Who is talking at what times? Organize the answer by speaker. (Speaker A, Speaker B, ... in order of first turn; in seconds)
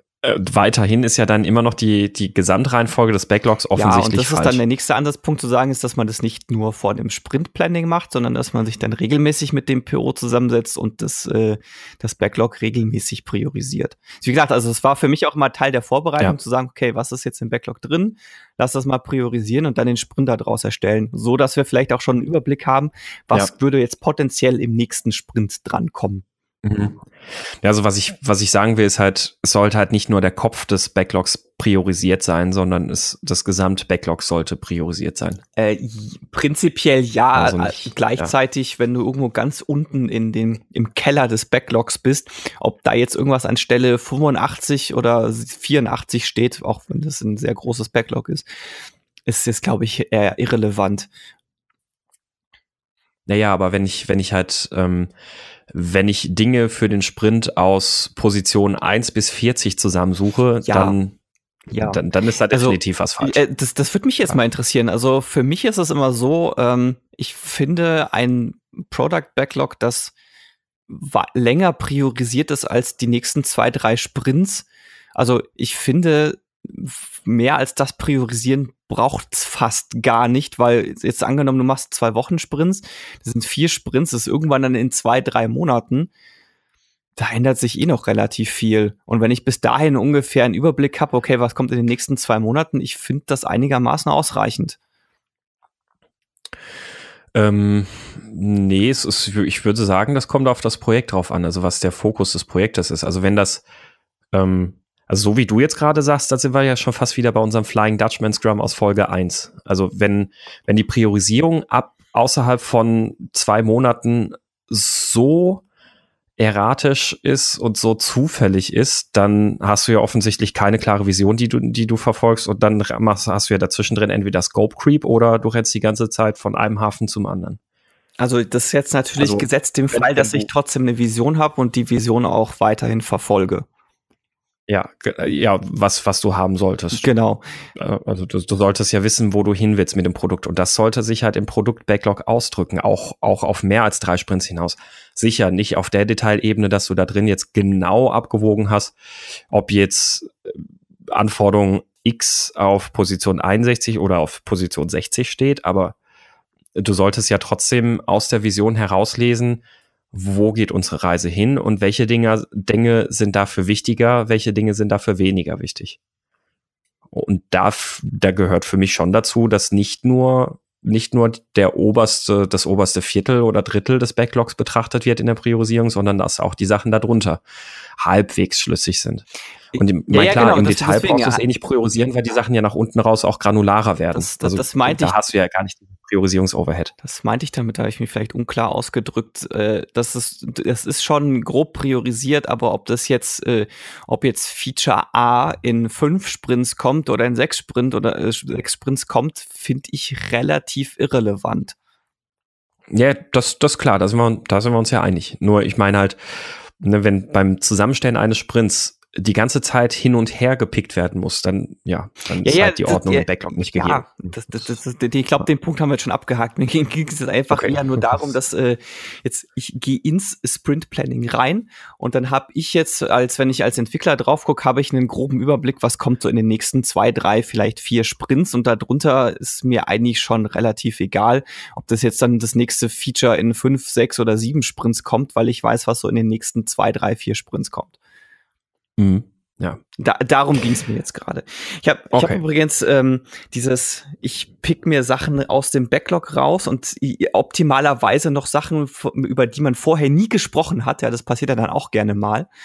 Speaker A: 0.2-4.6, 26.6-27.0, 27.6-35.4, 37.4-38.3, 53.3-55.1, 55.7-61.1, 61.8-63.4, 97.3-103.6, 104.3-115.6, 116.4-127.6, 129.2-130.5, 134.7-137.1, 137.8-148.9, 149.5-150.6, 151.1-155.9, 156.7-166.0, 167.1-177.4, 178.0-179.2, 179.8-186.9, 202.9-206.2, 206.8-214.6, 217.5-218.1, 239.0-239.8, 242.1-242.4
Speaker B: 3.7-26.2, 35.5-48.5, 49.3-51.1, 60.6-61.0, 61.7-70.1, 70.9-86.1, 87.2-94.8, 128.2-133.7, 136.9-137.4, 179.7-181.4, 184.1-185.1, 187.0-201.7, 212.4-237.9, 240.0-252.5